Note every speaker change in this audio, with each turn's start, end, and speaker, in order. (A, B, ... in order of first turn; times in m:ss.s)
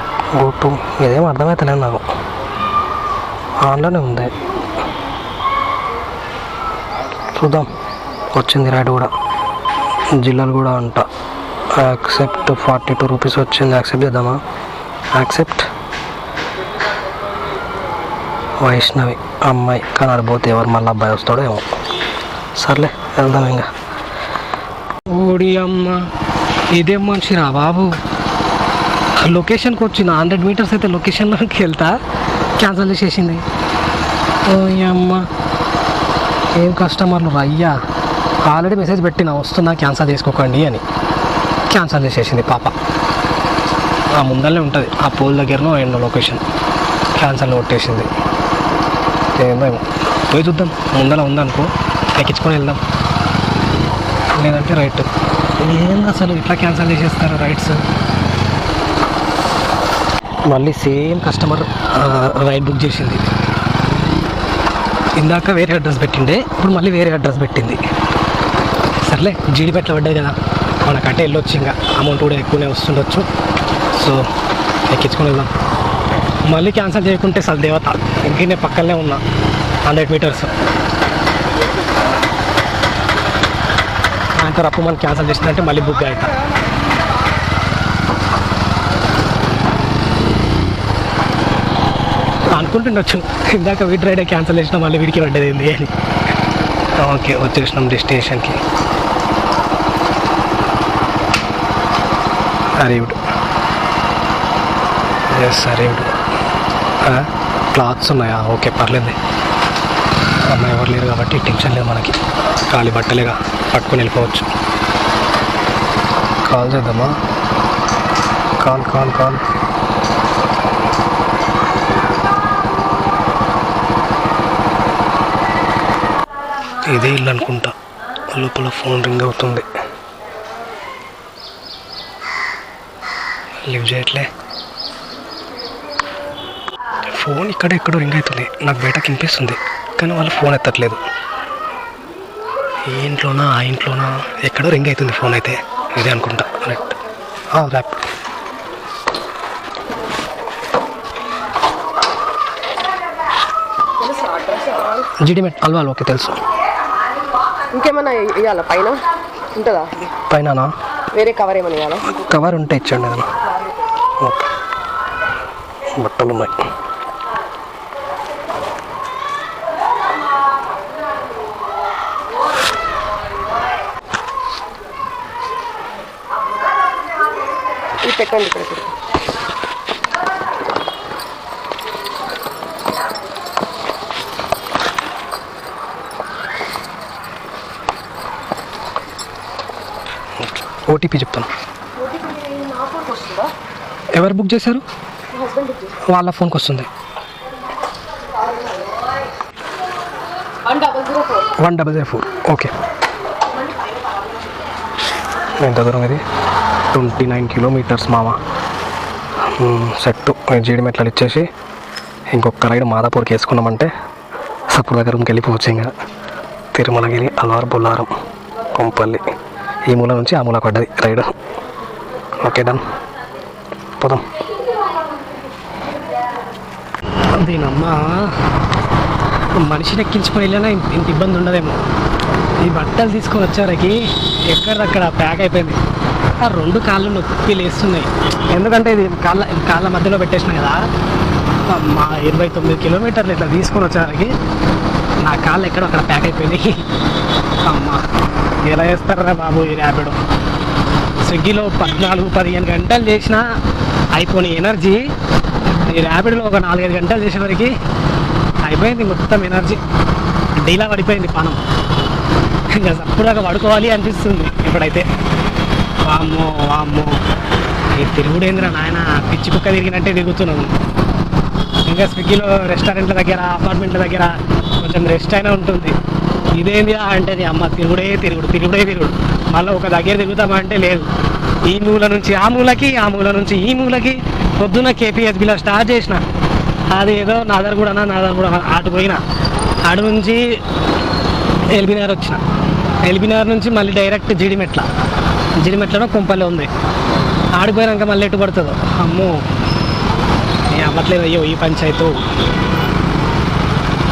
0:00.3-0:02.0 A
0:03.6-0:04.3 A
0:07.3-0:07.7 A
0:08.3-0:09.1 A
0:10.2-0:11.0 A
0:11.7-0:14.4 A
0:15.1-0:15.7 A
0:18.6-0:21.6 A
0:22.6-0:23.7 A
0:25.1-0:26.1 A
0:26.7-0:28.0 A
0:29.2-0:32.0 A
0:32.6-0:33.4 A
0:34.4-0:35.2 A
0:36.5-0:37.8 A
0:38.4-0:40.8 A
0:41.7-0:42.7 A
0:44.1-0:46.4 A
0:47.2-0:48.1 A
0:49.4-0:52.8 A
0:54.4-0:55.1 A
0:55.6-0:57.8 A
1:00.5-1:03.2 A
1:05.2-1:07.8 A
1:09.0-1:13.2 A
1:13.9-1:14.2 A
1:14.9-1:15.5 A
1:16.5-1:19.2 A
1:19.8-1:20.5 A
1:24.4-1:26.3 A
1:32.5-1:35.9 A
1:37.0-1:38.6 A
1:42.8-1:43.2 A
1:45.3-1:46.1 A
1:47.0-1:49.2 A
1:50.4-1:52.2 A
1:52.7-1:54.5 A
1:56.4-1:57.2 A
1:58.6-1:59.4 A
2:06.9-2:07.7 A
2:08.3-2:09.7 A
2:13.6-2:14.3 A
2:17.1-2:21.0 A
2:22.8-2:26.9 A
2:27.6-2:28.0 A
2:34.0-2:35.1 B
2:35.2-2:36.4 A
2:37.7-2:39.0 B
2:39.5-2:40.1 B
2:40.3-2:40.7 A
2:41.1-2:42.2 B
2:42.1-2:43.3 A
2:45.9-2:46.6 A
2:58.0-2:58.9 B
3:10.4-3:11.5 A
3:12.0-3:13.5 B
3:14.1-3:14.8 A
3:15.3-3:16.0 B
3:16.1-3:16.9 A
3:20.6-3:21.5 B
3:21.6-3:22.7 A
3:25.6-3:26.2 A
3:26.9-3:28.4 A
3:29.4-3:31.5 A
3:32.3-3:33.9 A
3:34.7-3:35.9 A
3:36.7-3:38.1 A
3:38.7-3:39.2 A
3:39.9-3:41.3 A
3:42.4-3:42.8 A
3:44.0-3:44.2 A
3:47.4-3:48.3 A
3:49.6-3:51.8 A
3:52.6-3:55.8 A
3:56.4-4:00.8 A
4:01.7-4:04.3 A
4:05.2-4:06.8 A
4:07.6-4:08.0 A
4:08.6-4:10.2 A
4:11.2-4:13.4 A
4:14.1-4:15.0 A
4:15.8-4:17.7 A
4:18.6-4:19.8 A
4:20.6-4:21.6 A
4:22.7-4:25.1 A
4:26.0-4:27.2 A
4:28.0-4:30.7 A
4:31.8-4:36.0 A
4:36.5-4:41.1 A
4:41.6-4:46.2 A
4:46.9-4:49.2 A
4:49.8-4:50.6 A
4:51.7-4:52.4 A
4:53.0-4:54.9 A
4:55.6-4:56.7 A
4:57.5-4:59.4 A
5:00.7-5:02.2 A